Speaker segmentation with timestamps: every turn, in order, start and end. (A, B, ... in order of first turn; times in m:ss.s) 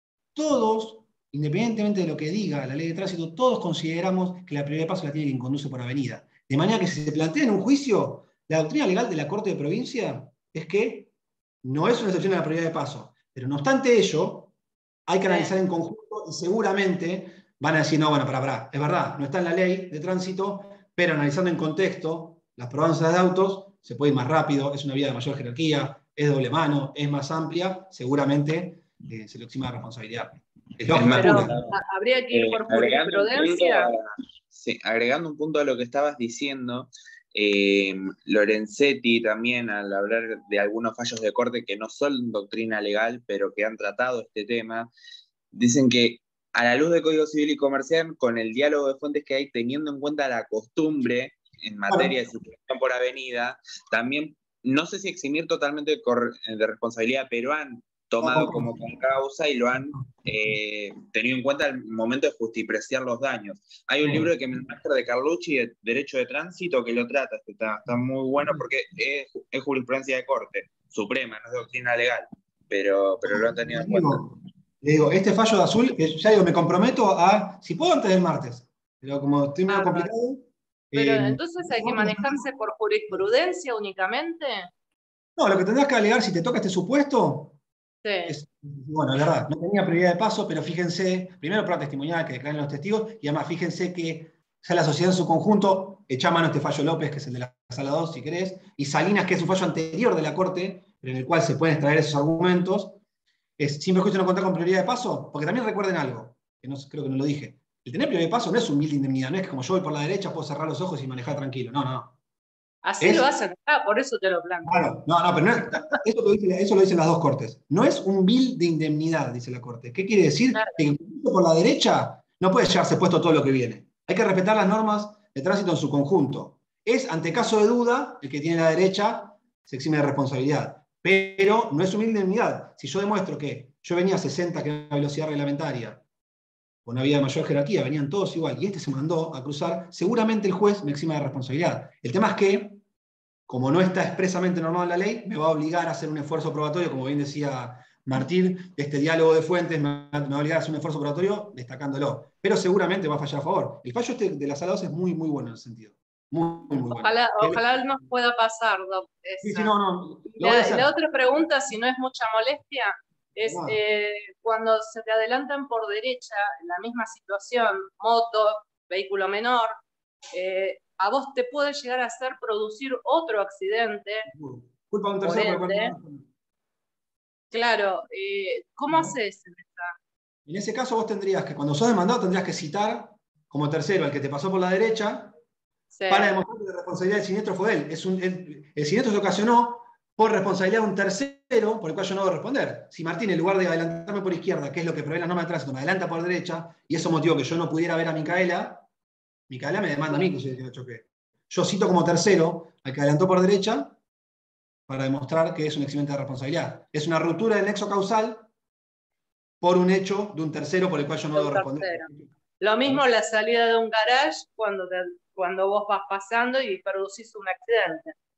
0:00.3-0:11.1 A
0:11.6-0:14.5 A
0:15.1-0:31.5 A
0:15.3-0:15.5 B
0:30.9-0:31.8 C
0:31.0-0:33.9 B
0:32.3-0:44.9 C
0:45.5-1:14.2 C
0:51.9-0:52.1 A
0:58.2-0:58.8 A
1:04.0-1:04.3 A
1:13.2-1:22.5 A
1:19.7-1:20.1 B
1:20.9-1:24.7 B
1:25.4-1:27.6 A
1:28.0-1:28.4 B
1:28.3-1:43.0 A
1:43.6-1:52.1 A
1:52.8-1:54.9 B
1:53.0-1:53.3 A
1:54.7-2:16.0 A
2:00.5-2:00.8 B
2:16.8-2:22.8 A
2:23.5-2:37.6 A
2:36.9-2:39.7 B
2:39.4-2:40.9 A
2:40.3-2:49.7 B
2:43.4-2:43.8 A
2:50.3-2:54.3 B
2:54.3-2:56.2 A
2:55.2-2:55.9 B
2:57.5-2:59.9 B
2:58.9-2:59.1 A
3:00.4-3:05.4 A
3:05.9-3:06.4 B
3:06.1-3:18.8 A
3:19.5-3:24.0 A
3:24.9-3:28.5 A
3:29.6-3:32.3 A
3:31.3-3:32.1 B
3:32.6-3:38.1 B